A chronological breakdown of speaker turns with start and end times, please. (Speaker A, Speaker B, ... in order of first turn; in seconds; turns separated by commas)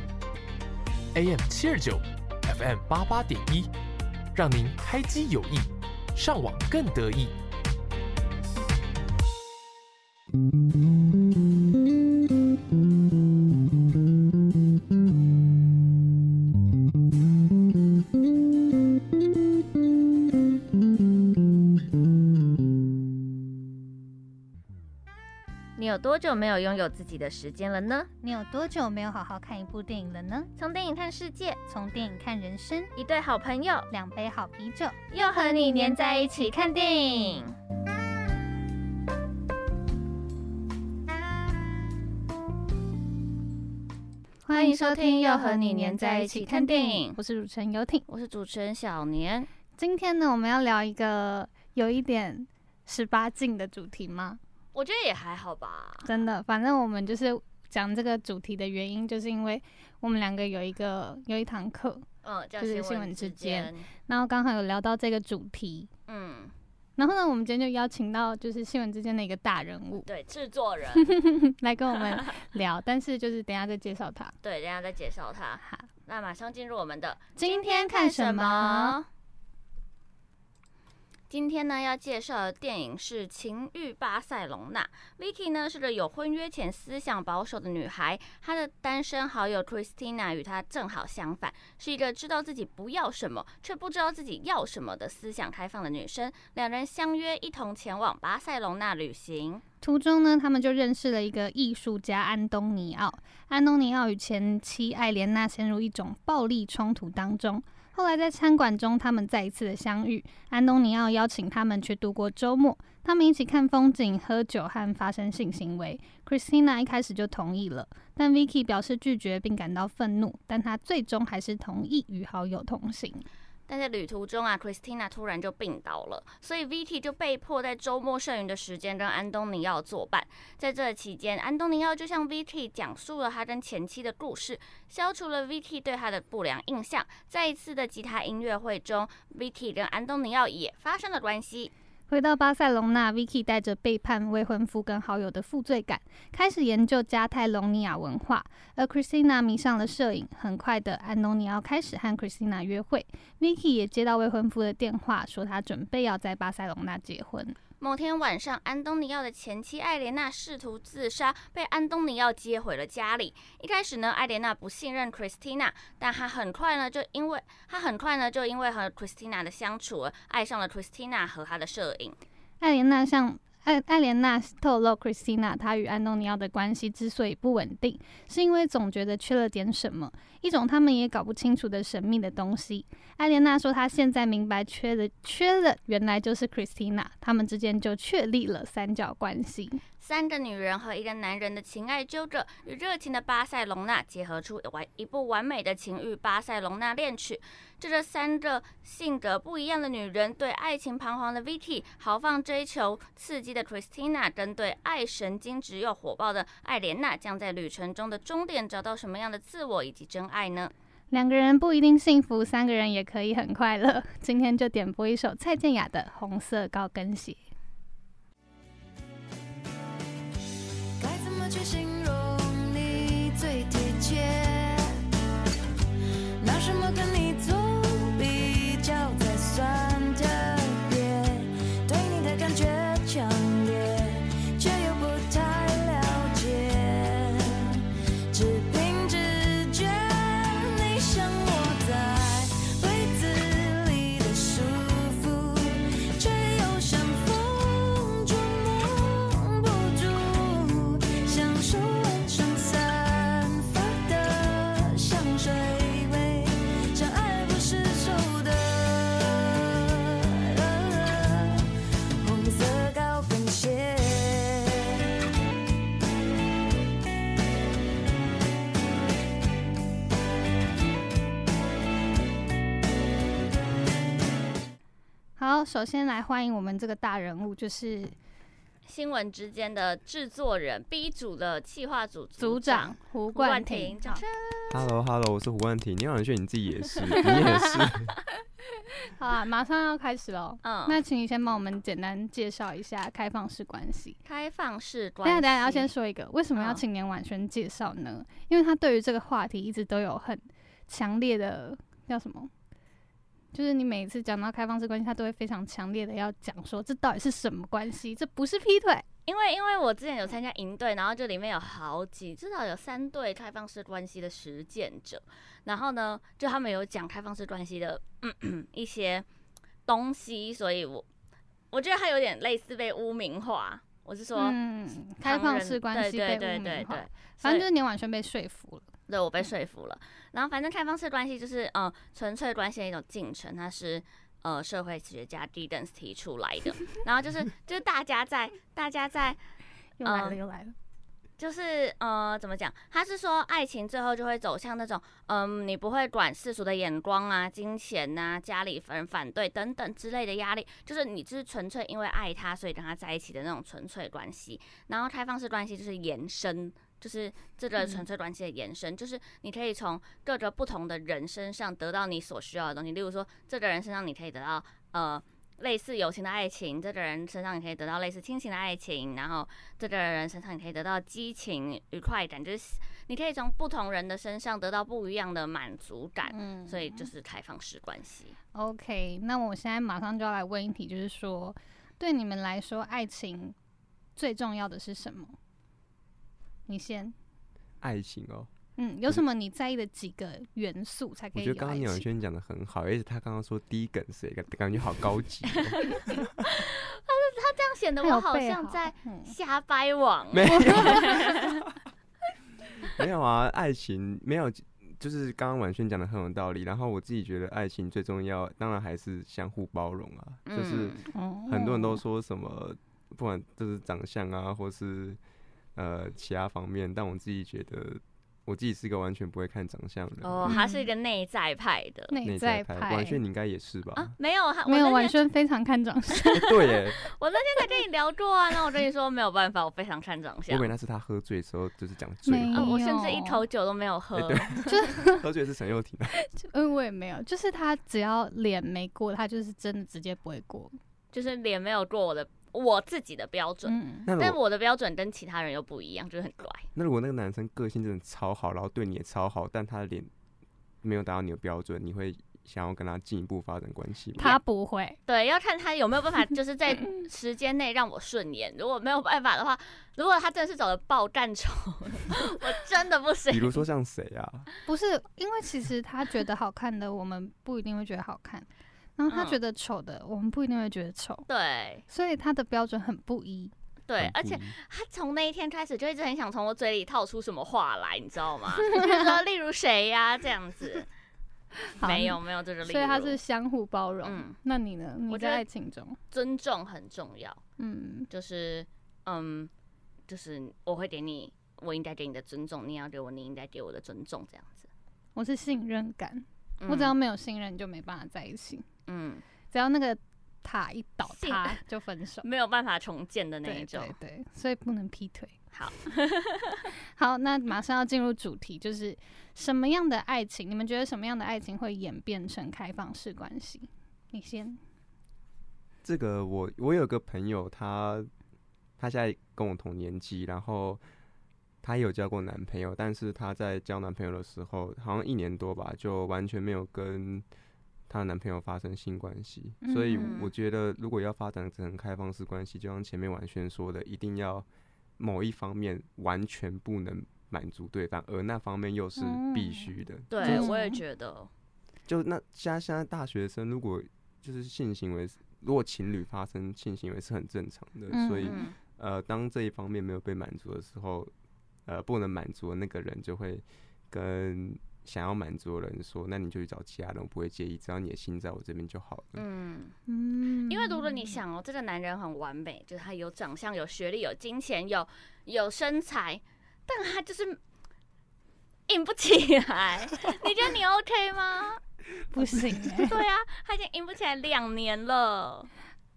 Speaker A: 1.1-3.7, Speaker A: 4.3-7.3, Speaker B: 25.8-28.1, Speaker C: 28.2-30.5, Speaker B: 30.6-31.6, Speaker C: 31.7-32.9, Speaker B: 33.0-33.9, Speaker C: 33.9-35.0, Speaker B: 35.1-37.5, Speaker C: 44.5-48.0, Speaker B: 44.5-47.2, Speaker B: 48.1-49.5, Speaker C: 49.8-54.4, Speaker B: 54.7-56.1, Speaker C: 56.0-62.0, Speaker B: 62.2-63.9, Speaker C: 62.6-65.9, Speaker B: 66.1-66.5, Speaker C: 67.0-70.1, Speaker B: 70.0-71.1, Speaker C: 71.0-74.3, Speaker B: 74.4-79.0, Speaker C: 75.6-75.9, Speaker C: 77.4-79.0, Speaker B: 81.3-99.6, Speaker C: 99.8-123.2, Speaker B: 123.7-141.7, Speaker C: 142.1-157.6, Speaker B: 157.8-172.2, Speaker C: 172.6-189.8, Speaker B: 190.0-210.7, Speaker C: 211.1-217.4, Speaker D: 221.0-224.9, Speaker D: 226.4-237.8, Speaker D: 238.3-261.6, Speaker D: 262.2-264.9, Speaker C: 275.4-278.1, Speaker B: 278.8-284.9, Speaker C: 282.4-284.2, Speaker E: 284.7-288.2, Speaker B: 287.1-287.6, Speaker C: 287.1-287.6, Speaker C: 289.0-294.2, Speaker B: 290.6-291.0, Speaker B: 294.2-295.9, Speaker C: 295.2-302.5, Speaker C: 303.5-309.0, Speaker B: 309.3-319.3, Speaker B: 319.9-321.1, Speaker B: 321.7-324.5, Speaker C: 324.4-328.9, Speaker B: 325.2-327.6, Speaker B: 329.1-339.4, Speaker C: 340.0-340.7, Speaker B: 340.0-340.4, Speaker B: 341.4-378.4, Speaker C: 376.3-377.1, Speaker C: 378.5-383.5, Speaker C: 384.1-385.3, Speaker C: 386.7-387.1, Speaker E: 387.8-388.5, Speaker C: 388.8-392.1, Speaker E: 391.3-396.3, Speaker B: 395.7-401.6, Speaker C: 398.0-399.3, Speaker E: 400.3-401.7, Speaker C: 400.5-401.2, Speaker E: 402.9-415.2, Speaker B: 410.4-411.1, Speaker C: 411.1-412.0, Speaker E: 415.7-420.5, Speaker B: 420.2-422.1, Speaker C: 420.4-420.9, Speaker C: 422.1-423.2, Speaker E: 422.2-424.1, Speaker B: 423.9-425.2, Speaker C: 424.6-426.5, Speaker B: 426.2-430.7, Speaker E: 426.3-427.0, Speaker E: 430.5-432.8, Speaker C: 432.3-433.4, Speaker B: 432.5-434.9, Speaker E: 434.1-436.2, Speaker C: 434.6-435.2, Speaker C: 436.1-440.7, Speaker B: 441.1-446.7, Speaker C: 443.6-444.1, Speaker E: 444.1-444.4, Speaker E: 446.7-450.1, Speaker E: 450.8-454.4, Speaker C: 454.2-455.0, Speaker B: 455.1-463.6, Speaker E: 463.3-464.5, Speaker C: 464.6-471.2, Speaker B: 469.1-469.4, Speaker B: 471.3-471.8, Speaker C: 471.9-473.5, Speaker B: 473.9-480.9, Speaker E: 474.0-474.5, Speaker C: 478.6-479.1, Speaker C: 481.7-486.0, Speaker B: 481.8-483.2, Speaker B: 484.0-484.4, Speaker B: 485.1-485.4, Speaker B: 486.1-487.4, Speaker C: 487.6-488.1, Speaker B: 488.1-489.5, Speaker B: 490.1-494.7, Speaker C: 495.1-498.6, Speaker B: 496.6-496.9, Speaker B: 498.9-499.2, Speaker C: 499.5-502.2, Speaker B: 501.1-501.6, Speaker B: 502.2-503.9, Speaker C: 503.4-505.4, Speaker B: 505.5-506.7, Speaker C: 506.9-514.6, Speaker E: 515.8-518.1, Speaker E: 518.8-520.8, Speaker E: 521.6-527.2, Speaker E: 527.9-534.5, Speaker C: 529.6-530.1, Speaker B: 529.9-530.3, Speaker E: 535.0-540.5, Speaker C: 539.0-539.7, Speaker B: 540.1-541.3, Speaker C: 540.2-540.8, Speaker E: 541.9-551.1, Speaker C: 547.9-548.4, Speaker B: 548.2-548.5, Speaker E: 551.6-559.2, Speaker B: 559.1-559.7, Speaker C: 559.9-561.2, Speaker B: 560.5-567.4, Speaker B: 568.7-571.6, Speaker C: 572.1-573.0, Speaker B: 572.6-575.5